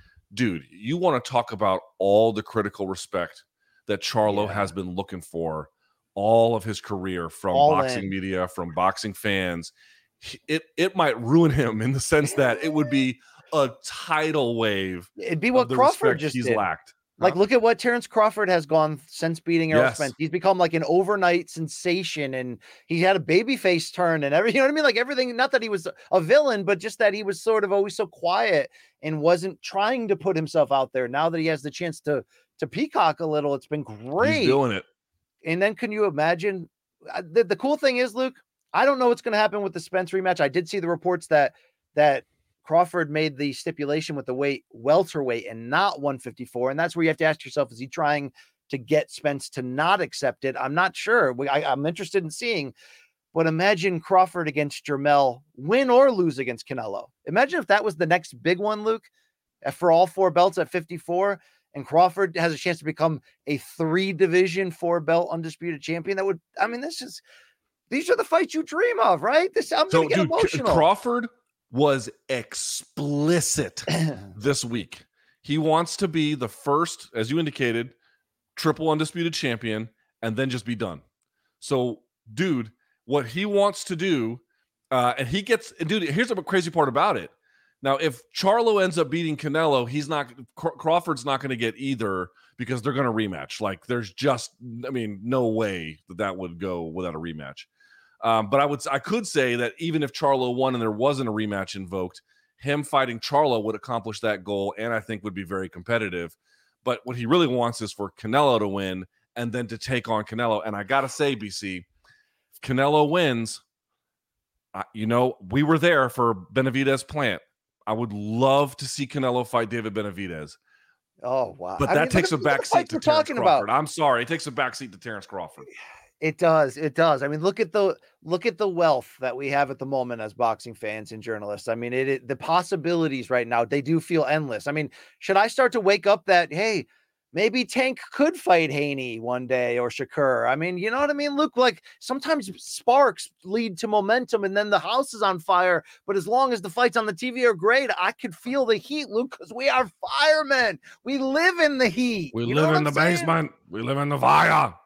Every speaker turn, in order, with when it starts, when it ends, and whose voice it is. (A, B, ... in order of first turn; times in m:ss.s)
0:00.3-0:17.4 A
0:04.3-0:04.7 B
0:07.5-0:08.2 B
0:15.2-0:16.7 B
0:17.2-0:34.6 B
0:19.7-0:20.2 A
0:34.2-0:34.9 A
0:35.4-0:52.7 B
0:53.3-0:59.1 B
0:59.6-1:07.2 B
1:07.9-1:10.9 B
1:09.9-1:17.9 A
1:18.6-1:21.0 A
1:21.6-1:37.7 A
1:38.2-1:51.9 A
1:52.6-1:53.6 A
1:54.7-2:00.6 A
2:01.2-2:03.7 B
2:01.8-2:05.7 A
2:06.2-2:33.4 B
2:32.3-2:34.8 A